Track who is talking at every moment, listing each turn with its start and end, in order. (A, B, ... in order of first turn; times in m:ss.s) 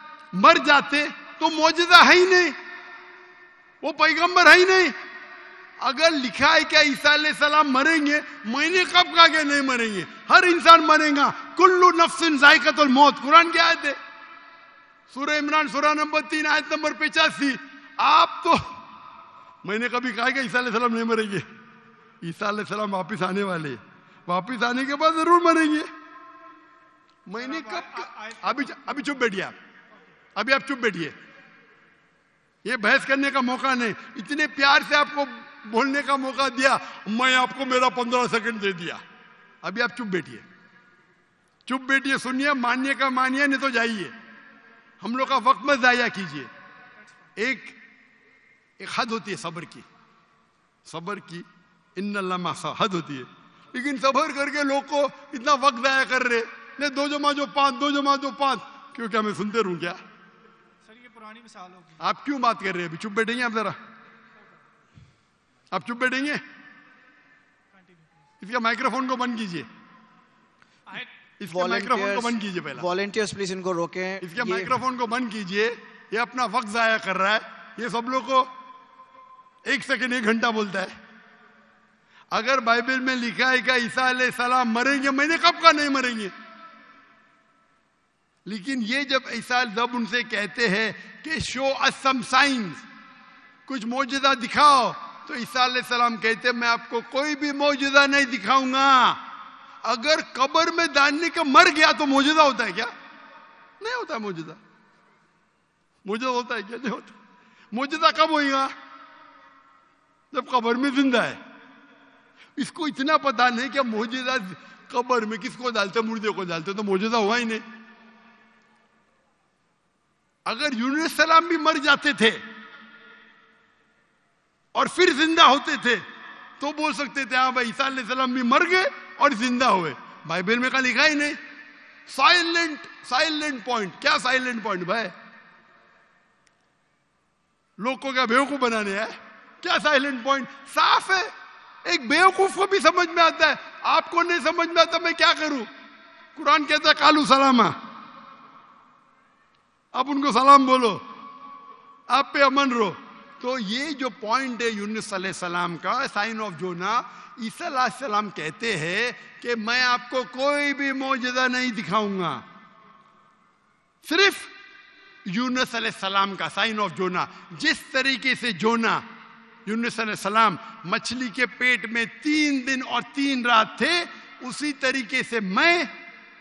0:00.4-0:02.6 A
0:03.8-0:04.9 A
0:05.8-0:14.0 A
0:15.1-0:18.6 A
0:19.6-0:21.4 A
0:22.2-0:25.9 A
0:27.3-0:29.6 A
0:27.4-0:29.3 B
0:30.4-0:31.1 A
0:32.6-0:39.0 A
0:39.6-0:40.4 A
0:41.7-0:44.1 A
0:45.0-0:46.5 A
0:47.4-0:47.8 A
0:48.8-0:49.8 A
0:50.9-1:00.0 A
1:00.8-1:02.0 B
1:02.0-1:03.8 A
1:05.7-1:06.4 A
1:07.7-1:08.2 B
1:08.4-1:09.7 A
1:11.4-1:12.9 A
1:11.5-1:14.8 C
1:14.2-1:18.5 A
1:19.7-1:20.9 A
1:22.3-1:26.3 A
1:28.5-1:32.8 A
1:33.7-1:39.2 A
1:39.8-1:42.9 A
1:43.8-1:44.6 A
1:46.0-1:47.1 A
1:47.7-1:48.7 A
1:50.3-1:51.4 A
1:52.6-1:57.6 A
2:00.5-2:02.4 A
2:04.7-2:06.0 A
2:06.6-2:11.4 A
2:12.1-2:15.1 A
2:17.8-2:21.3 A
2:21.8-2:25.7 A
2:26.4-2:27.8 A
2:29.9-2:31.0 A
2:32.1-2:42.4 A
2:44.0-2:44.5 A
2:45.2-2:49.0 A
2:49.7-2:55.9 A